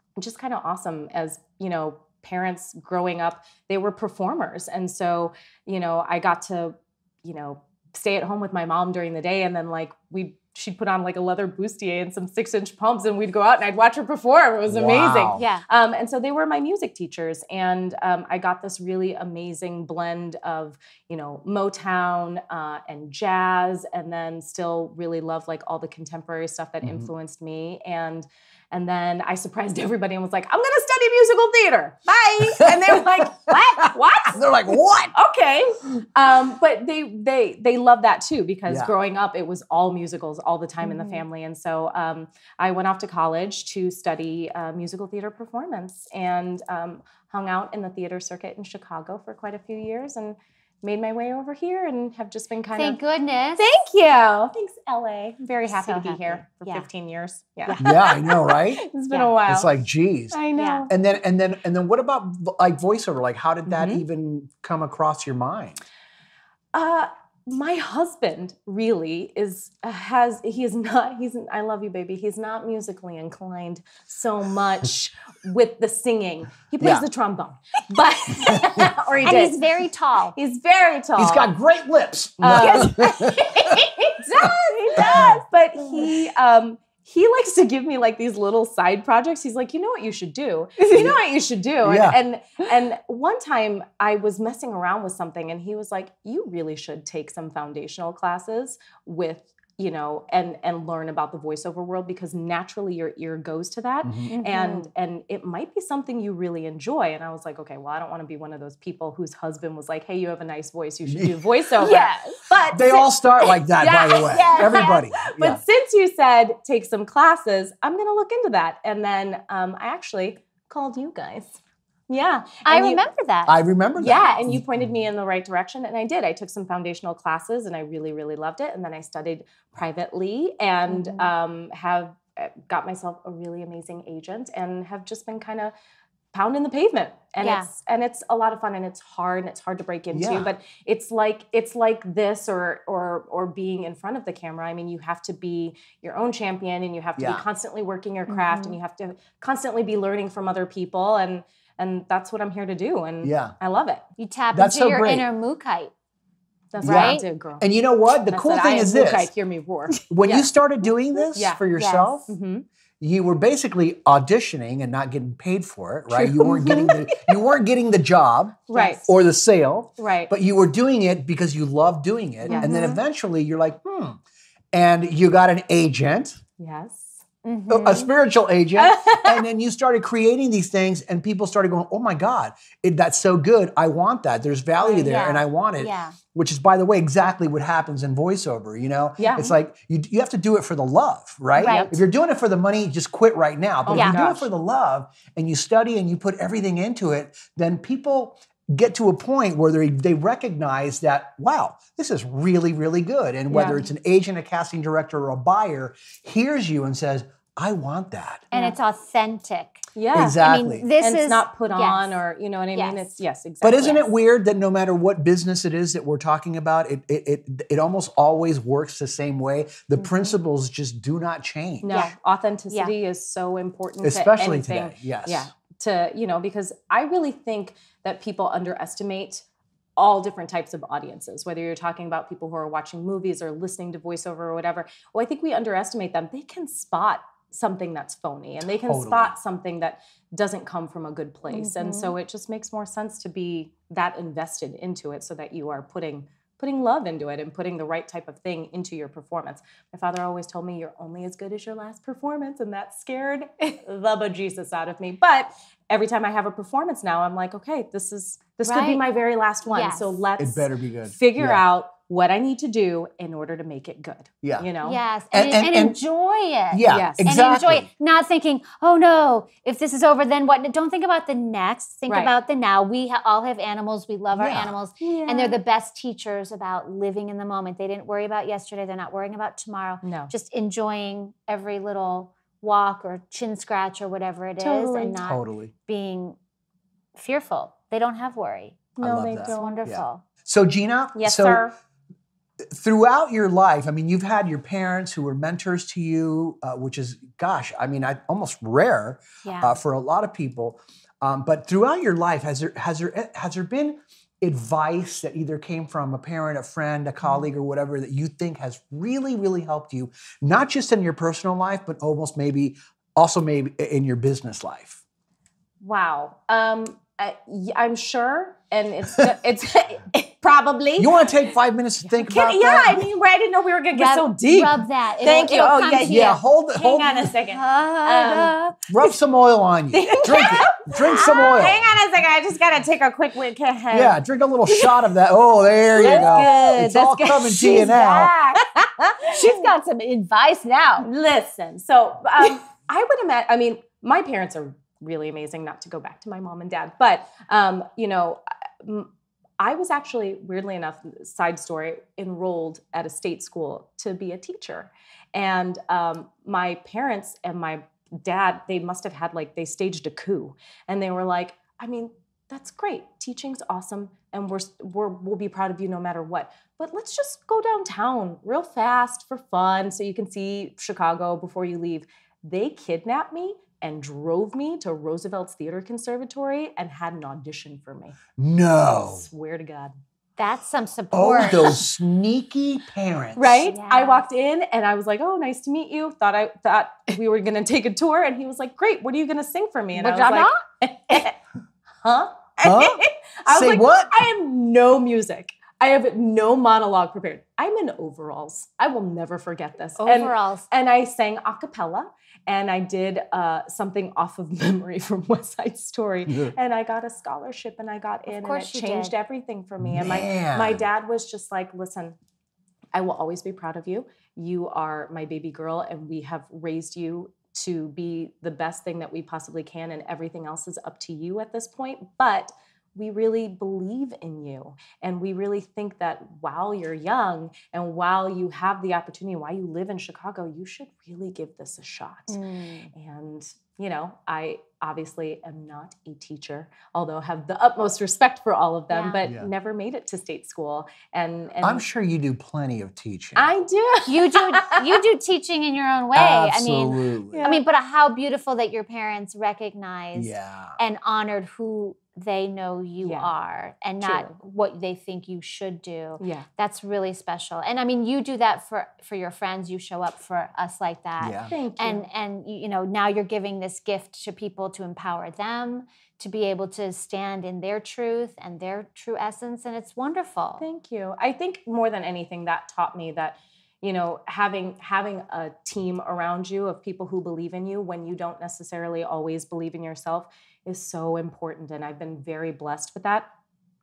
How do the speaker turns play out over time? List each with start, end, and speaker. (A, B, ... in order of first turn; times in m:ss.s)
0:00.2-0:53.0 A
0:14.7-0:15.4 B
0:15.3-0:15.6 C
0:26.8-0:27.1 B
0:32.4-0:35.1 B
0:40.8-0:41.2 C
0:52.7-0:53.7 C
0:53.5-0:59.7 A
0:55.8-0:56.9 C
0:57.6-0:58.0 C
0:57.8-0:58.8 B
0:59.5-1:05.8 B
1:00.3-1:00.9 A
1:00.5-1:00.9 C
1:03.7-1:04.0 A
1:06.7-1:19.6 A
1:18.4-1:18.9 B
1:19.2-1:20.3 C
1:20.3-1:21.5 A
1:21.2-1:23.8 B
1:22.4-2:01.6 A
1:22.5-1:22.9 C
1:24.4-1:25.4 B
1:24.9-1:25.2 C
1:30.9-1:31.2 B
1:31.8-1:32.2 B
1:44.0-1:44.3 B
1:44.3-1:44.9 C
1:51.0-1:51.4 B
1:51.8-1:52.4 C
1:52.7-1:55.6 B
1:54.4-1:55.0 C
2:02.1-2:03.0 A
2:02.6-2:03.6 C
2:03.5-2:04.9 B
2:04.0-2:15.7 A
2:10.9-2:11.3 C
2:16.3-2:34.0 A
2:17.4-2:17.7 C
2:20.1-2:20.5 B
2:27.2-2:27.4 B
2:28.3-2:28.8 C
2:33.2-2:33.5 B
2:34.2-2:35.9 C
2:34.5-2:35.3 B
2:36.7-2:37.7 A
2:36.8-2:37.2 C
2:36.8-2:39.3 B
2:38.2-2:40.5 A
2:40.1-2:42.3 B
2:41.3-2:41.6 A
2:41.8-2:42.2 C
2:42.3-2:42.6 A
2:43.0-2:54.2 B
2:46.1-2:47.4 A
2:48.7-2:49.1 A
2:50.0-2:50.3 A
2:52.4-2:52.8 A
2:52.5-2:53.0 C
2:54.7-2:56.4 B
2:56.6-2:57.2 A
2:57.4-2:58.1 C
2:57.7-3:28.5 B
2:58.8-2:59.4 A
3:04.8-3:05.1 A
3:05.0-3:06.2 C
3:09.2-3:09.5 A
3:11.6-3:12.0 A
3:11.6-3:11.9 C
3:13.8-3:14.5 A
3:13.9-3:14.2 C
3:23.5-3:23.8 A
3:28.5-3:32.2 C
3:29.9-3:30.4 A
3:30.1-3:30.9 B
3:31.0-3:34.1 A
3:32.7-3:33.2 C
3:33.6-3:41.9 B
3:40.0-3:40.3 C
3:41.8-3:49.4 A
3:41.9-3:42.1 C
3:44.0-3:45.5 B
3:50.0-4:25.0 A
3:58.8-3:59.3 B
4:01.5-4:02.1 C
4:18.6-4:19.0 C
4:19.6-4:20.2 C
4:20.4-4:21.6 B
4:24.8-4:46.4 C
4:25.3-4:26.0 B
4:26.7-4:27.9 B
4:26.9-4:27.3 A
4:32.1-4:32.3 A
4:34.3-4:34.7 B
4:35.0-4:35.6 A
4:40.0-4:40.3 A
4:44.6-4:45.2 A
4:45.2-4:45.7 B
4:47.1-4:48.9 C
4:49.0-4:49.8 A
4:49.0-4:51.6 B
4:49.4-4:50.2 C
4:51.2-4:51.7 A
4:52.7-5:15.0 B
4:59.4-4:59.8 C
5:15.8-5:21.5 A
5:21.0-5:23.0 B
5:22.1-5:28.8 A
5:23.9-5:26.4 C
5:26.0-5:27.3 B
5:27.5-5:28.7 C
5:28.9-5:31.8 B
5:29.9-5:34.9 A
5:33.9-5:38.3 B
5:36.0-5:39.7 A
5:36.0-5:38.6 C
5:39.2-5:41.1 C
5:41.0-5:49.1 A
5:49.6-6:18.2 A
6:18.4-6:19.2 B
6:19.0-6:19.9 A
6:20.4-6:21.8 C
6:21.1-6:23.6 B
6:23.4-6:31.4 A
6:23.7-6:24.2 C
6:29.9-6:31.3 C
6:32.0-6:52.2 A
6:32.6-6:34.2 B
6:40.0-6:40.6 C
6:46.3-6:46.5 B
6:48.3-6:49.1 C
6:49.8-6:50.8 B
6:52.9-7:12.4 A
7:12.3-7:12.9 C
7:12.9-7:21.8 A
7:18.9-7:19.2 C
7:19.2-7:19.5 B
7:21.6-7:23.5 B
7:23.4-7:25.0 A
7:24.0-7:50.6 C
7:26.1-7:27.4 B
7:27.3-7:27.6 A
7:30.1-7:30.8 B
7:33.0-7:33.3 A
7:34.0-7:34.3 A
7:36.2-7:36.5 A
7:41.2-7:41.5 B
7:41.5-7:42.0 A
7:50.6-8:03.3 A